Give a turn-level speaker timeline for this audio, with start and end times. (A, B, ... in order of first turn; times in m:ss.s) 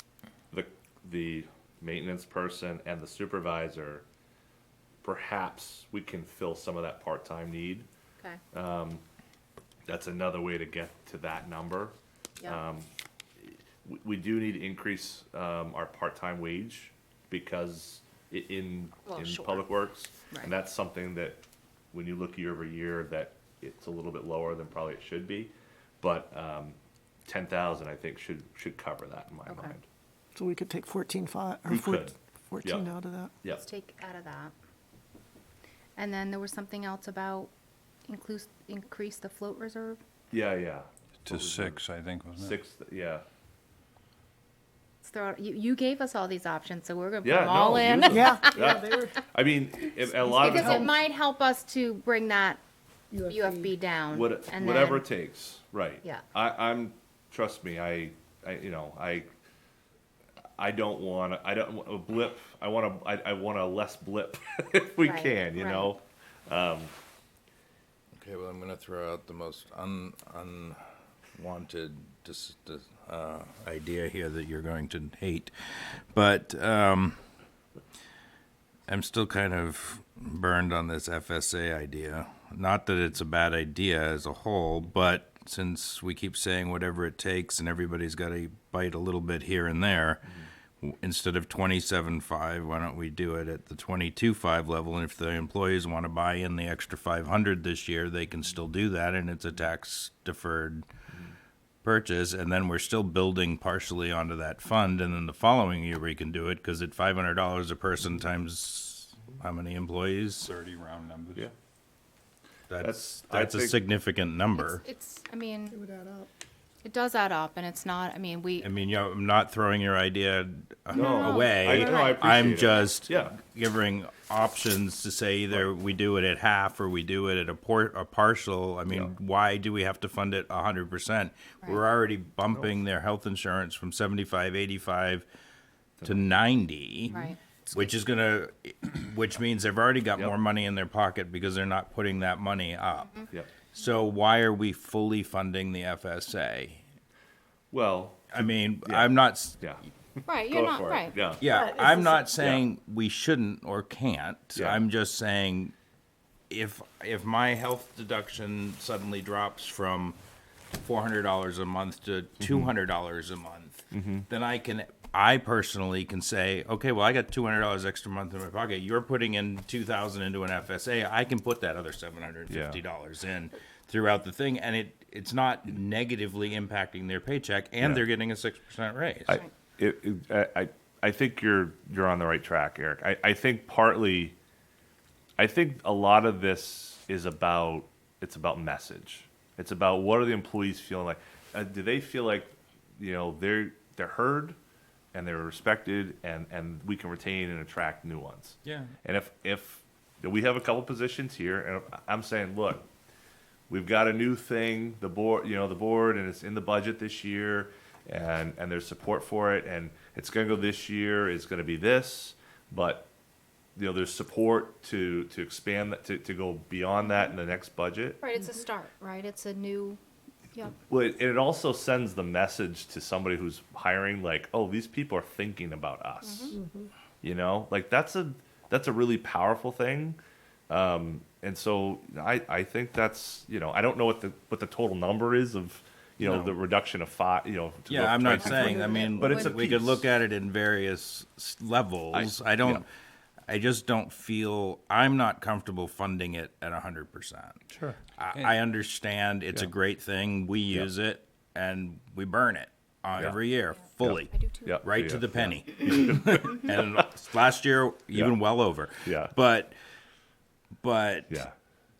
0:00.5-0:04.0 A
0:05.0-0:07.9 A
0:08.5-0:09.0 A
0:09.9-0:12.9 A
0:13.4-0:21.4 A
0:19.1-0:19.7 B
0:21.9-0:29.8 A
0:29.5-0:29.7 B
0:30.3-0:33.3 C
0:31.7-0:32.9 A
0:33.5-0:34.5 B
0:36.0-0:37.5 B
0:38.1-0:40.0 B
0:40.3-0:41.8 A
0:41.2-0:42.6 D
0:42.4-0:43.2 A
0:45.0-0:48.6 B
0:47.2-0:50.9 A
0:48.1-0:49.2 C
0:50.2-0:52.6 B
0:50.4-0:50.9 C
0:53.1-0:53.7 C
0:53.2-0:55.0 B
0:54.1-0:59.3 A
1:00.6-1:06.9 A
1:05.0-1:05.9 B
1:08.2-1:10.8 E
1:11.4-1:17.2 E
1:18.9-1:40.8 E
1:41.8-1:50.5 E
1:50.4-1:51.5 D
1:52.7-1:54.8 E
1:52.8-1:53.8 A
1:54.6-1:55.8 B
1:55.7-1:56.3 C
1:56.8-1:58.7 B
1:58.6-2:15.3 E
2:00.9-2:03.4 A
2:00.9-2:02.6 B
2:08.9-2:09.1 A
2:16.0-2:17.1 E
2:17.1-2:17.3 A
2:17.1-2:17.4 B
2:17.7-2:23.2 E
2:23.7-2:26.8 E
2:27.7-2:31.5 A
2:28.3-2:29.6 E
2:30.2-2:31.2 B
2:31.4-2:35.7 E
2:31.4-2:32.2 C
2:32.4-2:32.6 A
2:36.5-2:40.2 E
2:40.7-2:59.4 E
2:42.4-2:42.7 A
2:43.9-2:44.3 A
2:52.5-2:52.8 A
2:59.3-3:04.4 A
3:05.4-3:14.6 A
3:15.1-3:22.9 A
3:18.6-3:18.9 E
3:23.7-3:33.1 A
3:33.8-3:38.2 A
3:38.2-3:40.0 B
3:40.9-3:46.6 A
3:46.2-3:46.6 B
3:46.5-3:46.9 C
3:47.2-4:00.0 A
3:56.2-3:56.5 E
3:57.9-4:02.8 E
3:58.5-3:59.4 C
4:02.1-4:02.8 A
4:03.5-4:07.6 E
4:08.2-4:19.7 E
4:14.0-4:16.8 A
4:14.3-4:14.8 B
4:19.0-4:19.3 A
4:20.8-4:21.4 E